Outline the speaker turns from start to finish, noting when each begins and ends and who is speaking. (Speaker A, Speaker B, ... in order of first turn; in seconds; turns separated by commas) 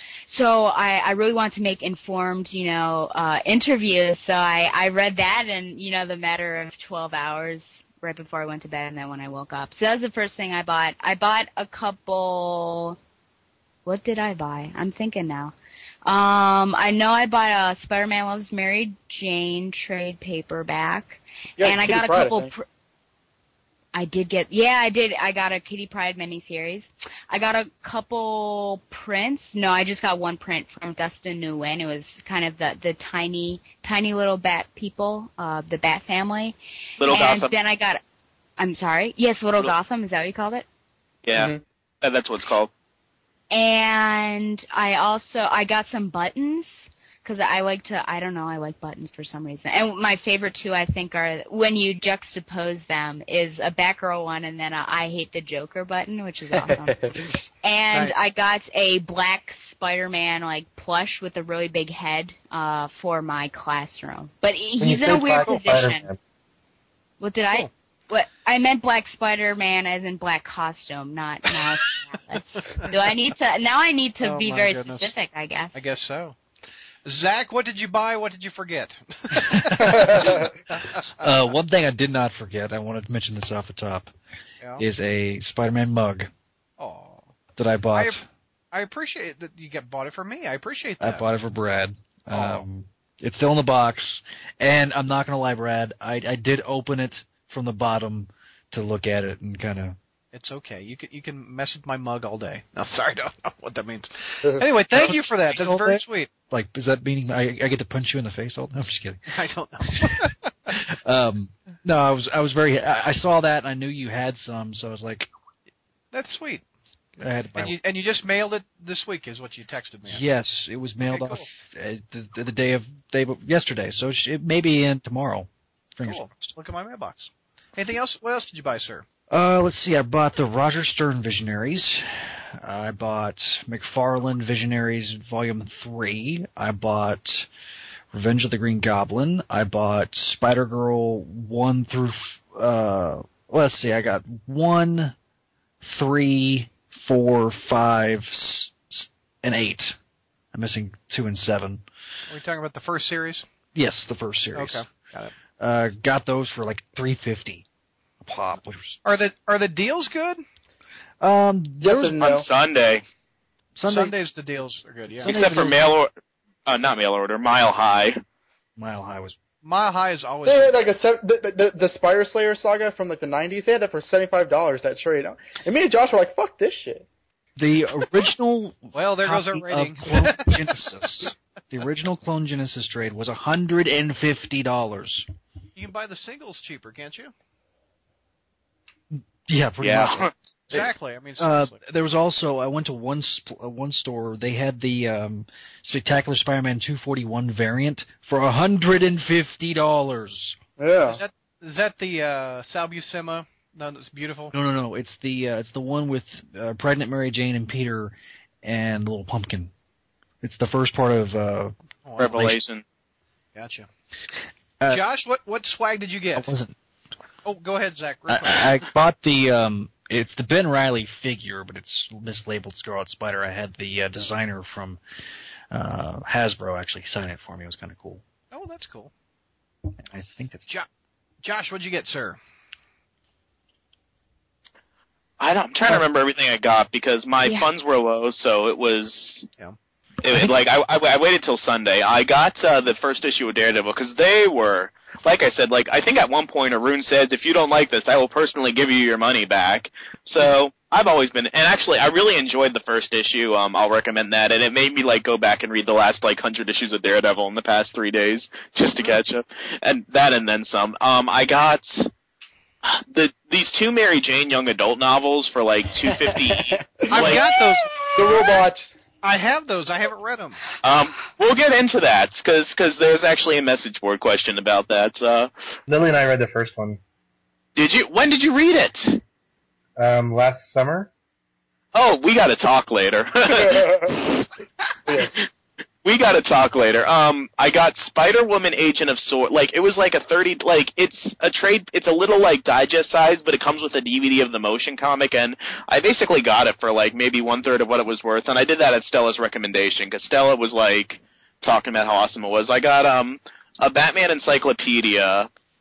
Speaker A: 0.3-13.0, Speaker A: 13.9-15.5, Speaker A: 16.1-22.6, Speaker B: 21.6-22.5, Speaker A: 23.9-38.0, Speaker C: 37.0-37.6, Speaker A: 38.6-40.7, Speaker C: 41.2-42.7, Speaker B: 41.3-41.6, Speaker A: 43.5-66.1, Speaker B: 56.5-57.3, Speaker D: 64.8-66.2, Speaker A: 67.2-75.8, Speaker E: 74.2-75.1, Speaker E: 75.7-76.4, Speaker E: 77.0-81.3, Speaker F: 79.3-80.5, Speaker B: 79.8-80.5, Speaker F: 81.2-84.1, Speaker F: 84.8-86.3, Speaker E: 86.8-87.3, Speaker F: 87.6-88.2, Speaker E: 88.7-91.3, Speaker F: 91.0-100.0, Speaker E: 92.3-92.6, Speaker E: 100.3-106.3, Speaker F: 104.9-109.2, Speaker E: 109.3-110.8, Speaker F: 109.9-110.3, Speaker F: 110.9-115.3, Speaker E: 116.1-116.7, Speaker F: 117.2-117.8, Speaker E: 117.6-120.2, Speaker F: 120.1-126.3, Speaker E: 121.0-121.5, Speaker E: 126.0-129.1, Speaker F: 129.3-137.5, Speaker F: 138.1-145.2, Speaker F: 145.8-150.0, Speaker F: 150.5-151.8, Speaker E: 152.3-153.5, Speaker F: 153.8-154.8, Speaker E: 154.6-155.3, Speaker F: 155.6-157.7, Speaker F: 158.2-159.0, Speaker E: 159.1-160.4, Speaker F: 161.2-162.1, Speaker B: 161.8-162.4, Speaker C: 162.0-163.1, Speaker F: 163.8-164.2, Speaker E: 163.9-165.3, Speaker F: 165.2-165.9, Speaker C: 165.3-166.1, Speaker C: 166.7-168.2, Speaker F: 168.8-169.4, Speaker E: 169.6-170.8, Speaker B: 170.5-177.1, Speaker F: 177.6-185.3, Speaker E: 178.9-180.9, Speaker E: 185.8-187.3, Speaker F: 189.1-200.6, Speaker C: 189.8-190.3, Speaker E: 190.7-191.8, Speaker B: 200.8-201.2, Speaker E: 201.1-204.5, Speaker F: 204.5-209.7, Speaker F: 210.4-212.6, Speaker E: 212.1-212.5, Speaker C: 212.2-212.8, Speaker E: 213.6-213.9, Speaker E: 214.9-216.5, Speaker F: 216.3-216.8, Speaker E: 217.4-218.8, Speaker F: 218.3-225.0, Speaker F: 225.7-228.2, Speaker E: 228.5-229.1, Speaker F: 230.1-230.7, Speaker E: 231.4-232.4, Speaker C: 235.4-239.5, Speaker C: 240.2-262.1, Speaker F: 240.3-240.5, Speaker C: 262.8-267.7, Speaker B: 266.1-267.6, Speaker E: 267.1-268.5, Speaker B: 268.1-268.9, Speaker E: 269.2-270.6, Speaker C: 270.8-275.5, Speaker D: 275.9-277.0, Speaker C: 277.8-279.2, Speaker D: 280.0-281.1, Speaker C: 281.9-284.5, Speaker B: 283.5-284.3, Speaker B: 285.1-285.3, Speaker C: 286.1-305.5